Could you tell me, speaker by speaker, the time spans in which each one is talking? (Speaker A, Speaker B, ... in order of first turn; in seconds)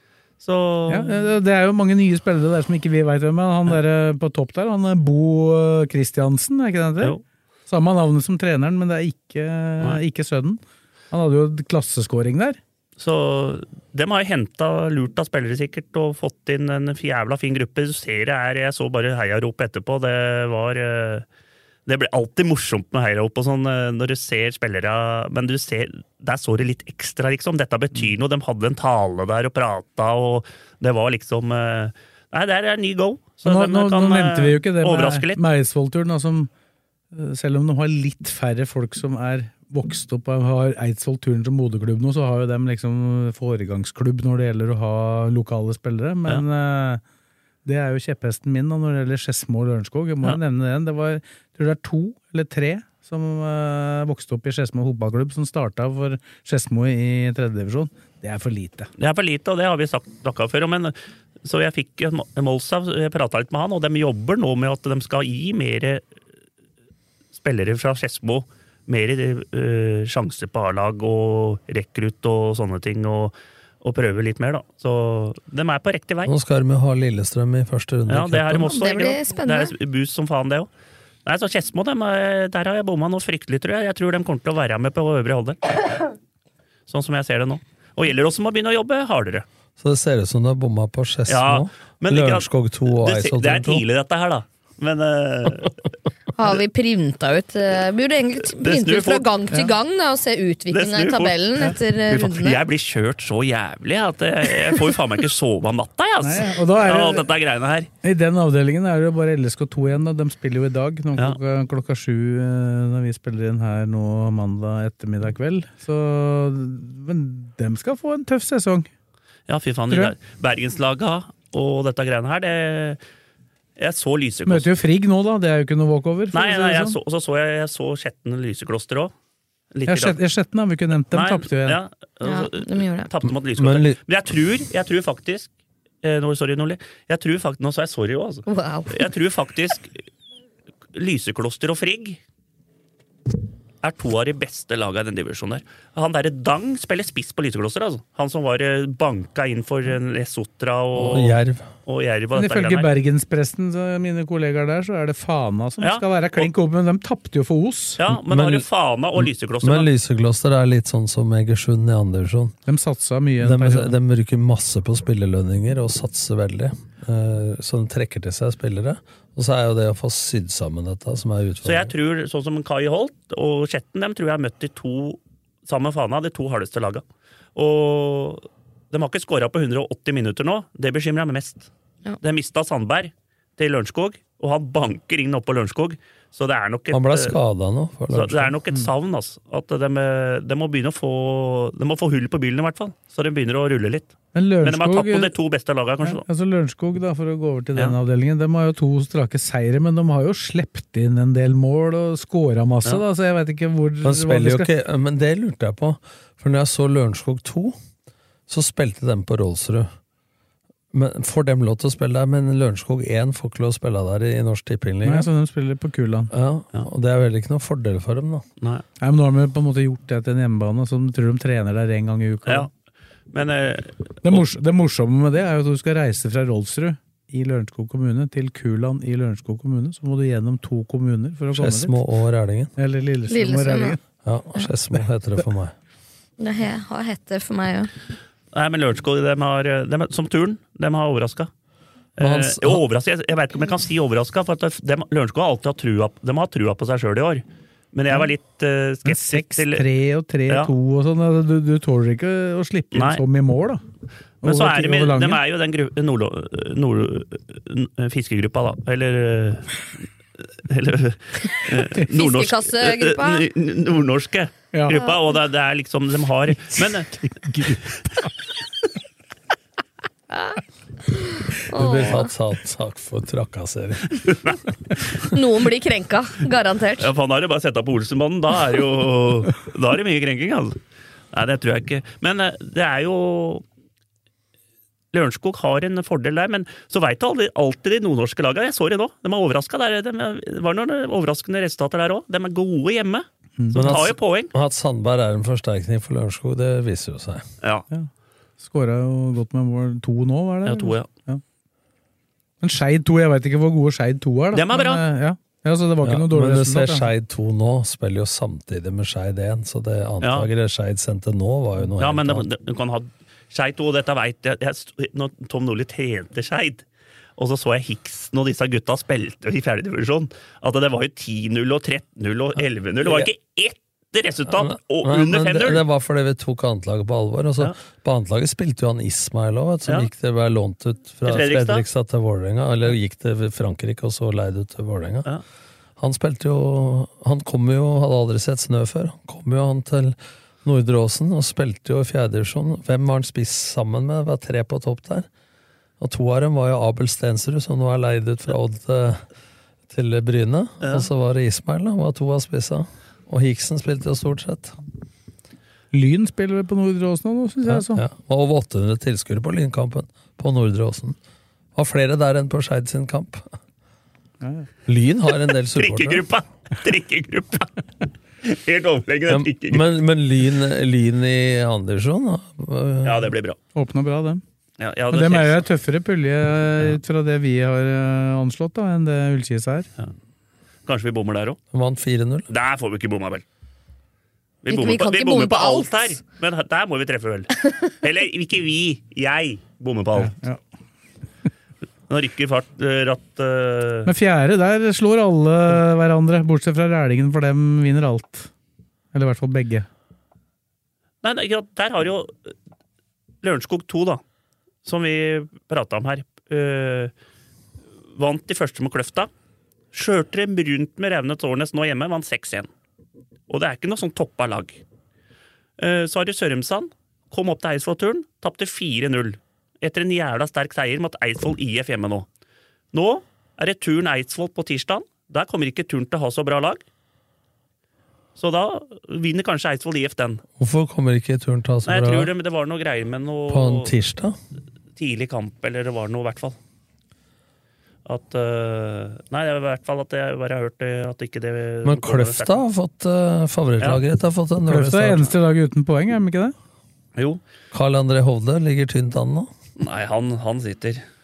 Speaker A: 0.4-1.2, 13.0-21.3, 21.9-35.4, 59.0-66.0, 67.3-76.3, 78.1-80.7, 81.2-85.8, 86.9-89.5, 91.3-95.8, 98.6-99.3, 100.7-101.4, 102.1-107.9, 119.5-123.0, 123.8-124.7, 126.3-129.1, 129.7-130.2, 131.1-135.5, 136.0-139.9, 140.9-142.2, 143.8-152.9, 155.8-156.5, 158.0-159.9, 171.7-177.0, 177.6-181.7, 182.2-187.4, 188.1-196.2, 223.3-224.4, 238.5-241.5, 242.2-249.8, 252.9-253.2, 254.4-259.8, 260.6-268.0, 274.3-274.6, 277.0-280.8, 281.3-283.6, 285.1-294.5, 300.7-301.1, 304.5-305.0, 310.2-310.5, 312.0-316.9, 317.4-325.8, 331.2-331.8, 350.8-351.1, 365.8-367.8, 368.4-369.8, 373.0-373.6, 374.8-375.6, 380.9-381.6, 382.5-383.4, 384.6-390.3, 392.1-394.1, 401.2-402.5, 403.4-404.2, 404.9-407.1, 408.2-409.3, 409.9-412.7, 413.5-414.8, 415.8-422.3, 422.9-426.8, 428.4-430.4, 431.9-433.9, 435.0-436.6, 438.1-442.6, 447.2-447.4, 449.8-451.0
Speaker B: 0.9-7.2, 7.7-12.6, 33.5-36.5, 37.1-47.0, 47.6-58.9, 106.2-107.3, 108.0-118.9, 119.9-120.2, 124.5-127.0, 129.9-131.8, 152.3-158.0, 162.7-163.9, 194.3-195.3, 196.0-204.7, 215.0-216.3, 219.0-222.7, 224.2-232.0, 232.8-234.0, 249.1-253.8, 254.4-255.4, 264.7-265.0, 267.3-267.8, 293.6-293.9, 298.6-301.4, 302.6-307.1, 355.9-358.0, 364.4-364.7, 373.8-374.4, 375.1-379.9, 390.2-390.6, 394.1-398.5, 399.1-399.9, 444.7-446.6
Speaker C: 76.2-78.8, 89.8-93.8, 133.6-134.0, 150.9-151.7, 158.1-158.7, 159.2-162.6, 163.4-171.9, 186.9-188.5, 204.0-207.8, 208.5-209.9, 210.9-215.3, 216.3-218.4, 231.6-232.7, 234.2-235.7, 242.2-242.8, 271.7-274.4, 293.7-297.5, 306.0-312.4, 324.5-335.3, 336.0-345.3, 346.0-349.2, 349.9-354.8, 357.7-361.2, 361.8-363.5, 364.9-366.2, 369.3-373.3, 381.7-382.5, 430.6-432.3, 433.5-434.4, 441.9-445.3, 447.7-449.5
Speaker D: 78.7-79.7, 96.4-102.6, 132.2-133.1, 138.5-139.0, 233.3-234.0, 236.4-237.9, 262.0-263.5, 271.7-272.3, 275.3-277.1, 384.7-386.1